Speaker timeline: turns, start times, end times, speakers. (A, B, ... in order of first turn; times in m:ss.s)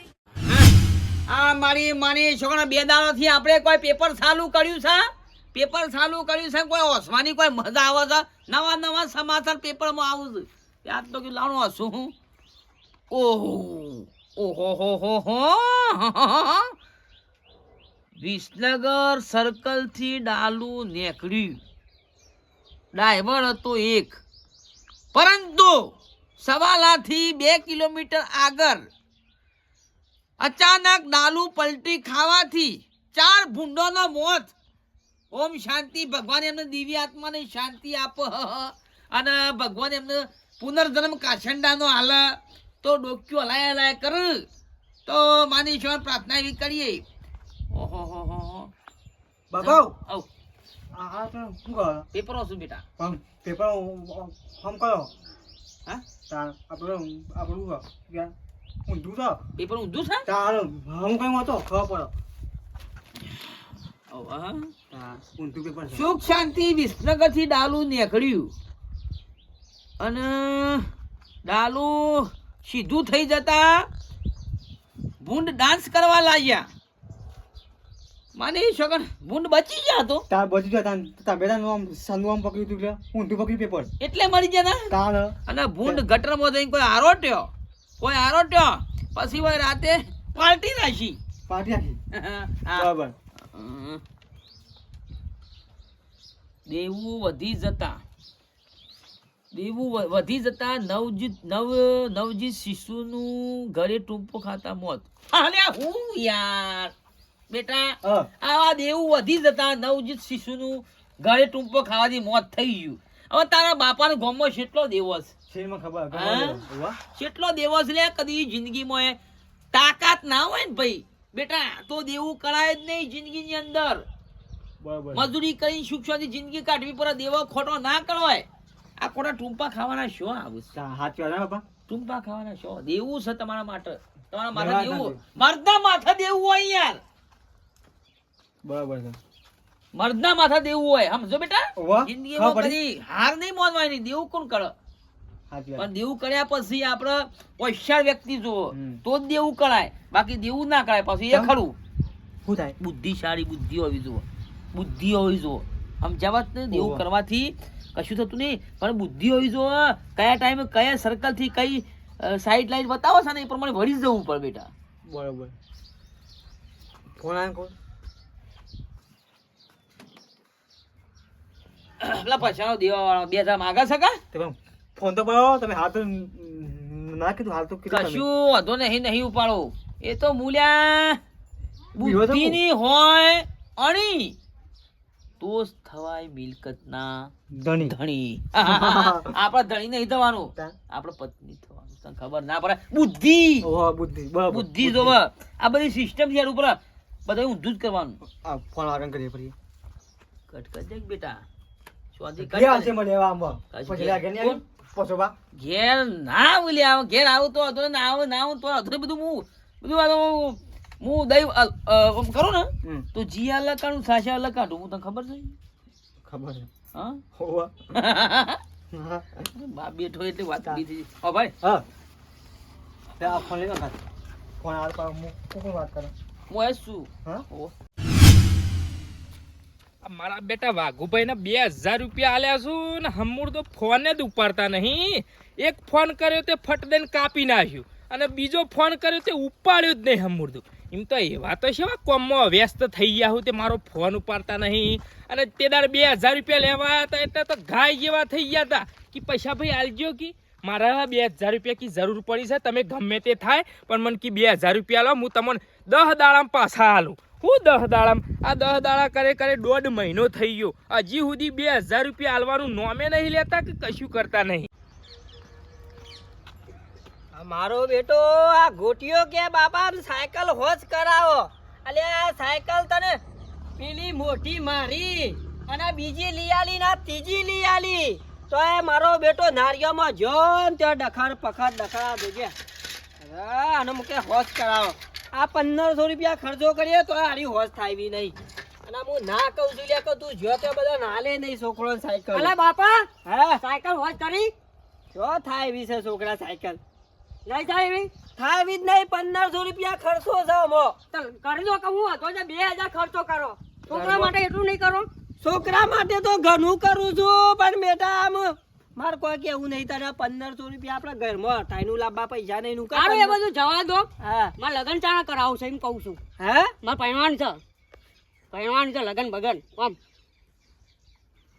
0:01.3-0:12.1 A
0:13.1-0:16.7 A
0:18.2-0:21.6 A
0:22.9-0:24.2 A
0:25.1-0:28.8 A
0:30.4-0:34.5 A
0:35.3-0:44.4 A
0:45.1-0:47.0 A
0:47.7-0:48.7 A
0:49.5-0:50.0 B
0:49.6-0:50.3 A
0:50.9-0:52.1 B
0:52.1-0:52.8 A
0:53.0-0:55.1 B
0:56.3-0:58.3 B
0:58.9-0:59.4 B
0:59.6-1:00.3 A
1:00.2-1:02.1 B
1:04.1-1:04.7 A
1:04.9-1:06.1 B
1:05.9-1:08.5 A
1:10.0-1:10.9 A
1:11.5-1:13.9 A
1:15.2-1:16.7 A
1:18.4-1:20.2 A
1:20.3-1:23.9 B
1:24.0-1:24.9 A
1:24.9-1:26.0 B
1:25.5-1:31.2 A
1:31.5-1:32.0 B
1:32.1-1:32.9 A
1:32.8-1:33.2 B
1:33.5-1:34.0 A
1:36.7-1:38.0 A
1:39.5-1:46.9 A
1:47.5-1:55.3 A
1:48.0-1:48.3 B
1:55.5-1:57.0 B
1:56.1-1:59.2 A
1:59.7-2:04.0 A
2:04.8-2:05.3 B
2:05.1-2:08.4 A
2:09.0-2:10.7 A
2:10.7-2:11.6 B
2:11.9-2:17.0 A
2:14.5-2:15.2 B
2:18.6-2:19.2 B
2:19.9-2:24.7 A
2:21.8-2:22.8 B
2:25.5-2:25.9 B
2:25.8-2:31.8 A
2:28.7-2:29.0 B
2:31.3-2:31.6 B
2:32.4-2:32.8 B
2:32.8-2:44.7 A
2:36.7-2:37.0 B
2:45.1-2:45.5 B
2:47.2-2:47.7 B
2:52.0-2:54.2 A
2:54.3-2:58.2 B
2:57.9-3:01.2 A
3:02.0-3:04.4 A
3:02.0-3:02.6 B
3:05.4-3:13.7 A
3:07.5-3:08.0 B
3:08.6-3:09.4 B
3:13.6-3:15.2 B
3:14.5-3:18.2 A
3:18.2-3:19.5 B
3:20.5-3:21.4 A
3:22.2-3:23.0 A
3:22.4-3:25.3 B
3:23.7-3:24.6 A
3:25.6-3:35.6 A
3:36.2-3:36.7 B
3:37.0-3:37.2 A
3:37.4-3:37.8 B
3:37.9-3:38.6 A
3:38.9-3:39.2 B
3:39.4-3:41.5 A
3:43.2-3:44.0 B
3:44.6-3:46.1 B
3:46.5-3:47.7 A
3:50.0-4:24.7 C
4:27.3-4:33.2 D
4:33.8-4:42.5 D
4:43.2-4:52.6 D
4:52.3-4:53.1 E
4:53.2-4:53.6 D
4:53.6-4:54.5 E
4:55.1-4:56.8 D
4:57.5-4:58.1 E
4:58.4-5:01.0 D
5:01.1-5:05.1 E
5:03.9-5:04.4 D
5:05.4-5:13.4 D
5:12.9-5:16.2 E
5:14.2-5:14.6 D
5:16.4-5:16.7 D
5:16.8-5:17.6 E
5:18.5-5:20.0 E